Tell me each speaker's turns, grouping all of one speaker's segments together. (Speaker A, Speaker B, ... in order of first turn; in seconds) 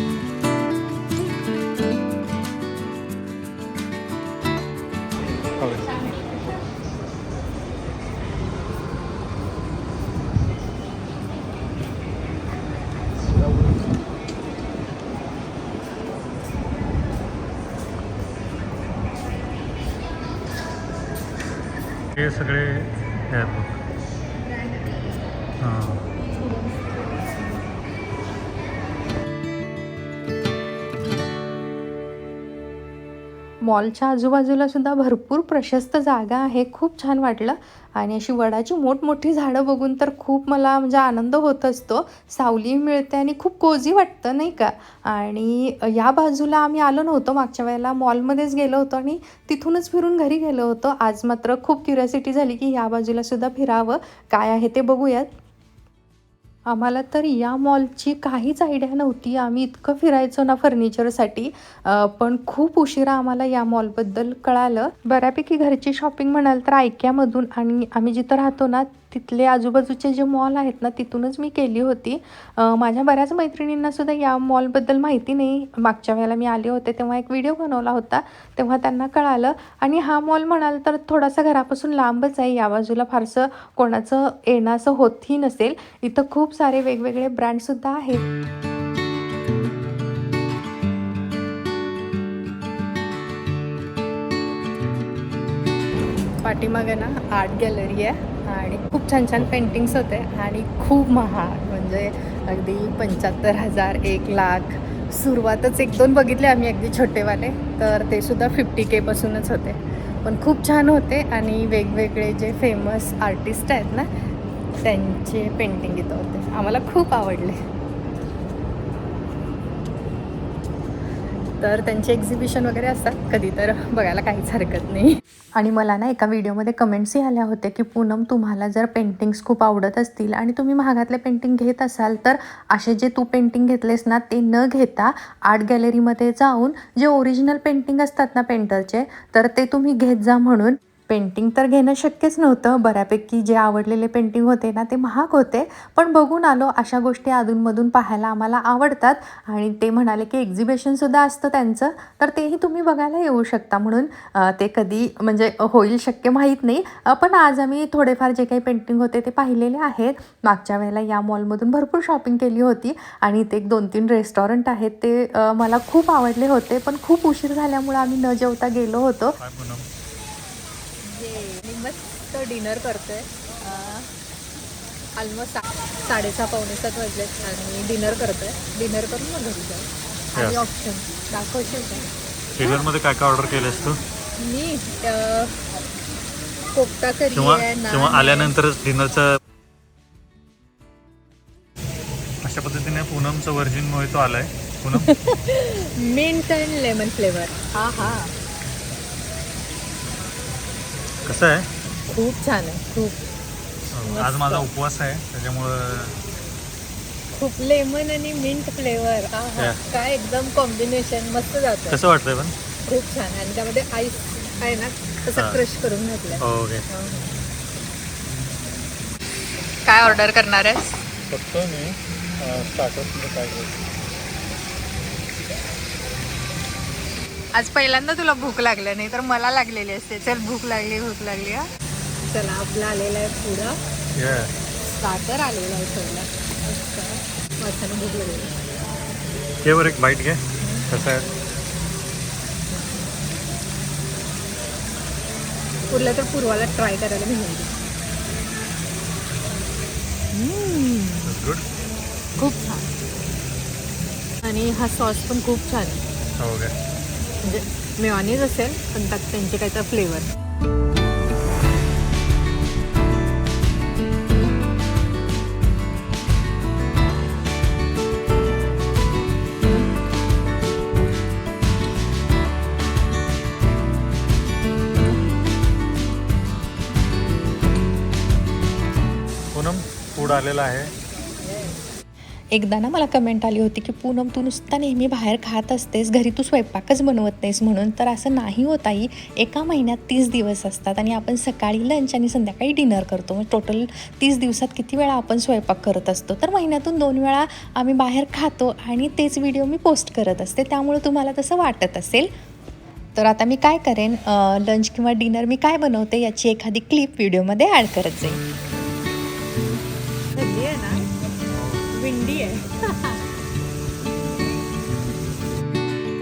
Speaker A: 5.6-6.0, 22.1-23.8, 25.6-26.0, 169.4-169.9, 180.3-180.6, 182.6-184.0, 187.3-189.3, 192.4-195.1, 198.0-198.2, 201.2-201.7, 203.9-206.2, 211.9-212.5, 215.3-215.6, 216.4-216.8, 221.3-223.8, 234.2-234.5, 239.6-241.2, 251.2-251.6, 256.4-256.7, 279.5-280.9, 311.5-311.9
Speaker B: 33.6-55.3, 56.7-88.2, 96.5-114.1, 114.8-117.5, 121.6-169.4, 219.9-221.0, 227.6-231.6, 282.5-302.3, 303.1-308.4
Speaker C: 96.5-96.9, 103.1-104.0, 105.2-109.3, 121.7-123.2, 124.2-124.8, 171.0-174.1, 175.2-182.1, 184.4-185.6, 186.7-188.5, 195.1-198.3, 202.1-203.1, 204.0-204.7, 207.3-212.0, 212.8-216.4, 216.9-217.2, 228.1-231.2, 232.3-233.8, 234.8-238.5, 245.9-247.7, 250.3-251.3, 252.4-252.9, 254.4-256.0, 257.4-260.3, 310.3-311.1, 311.9-313.2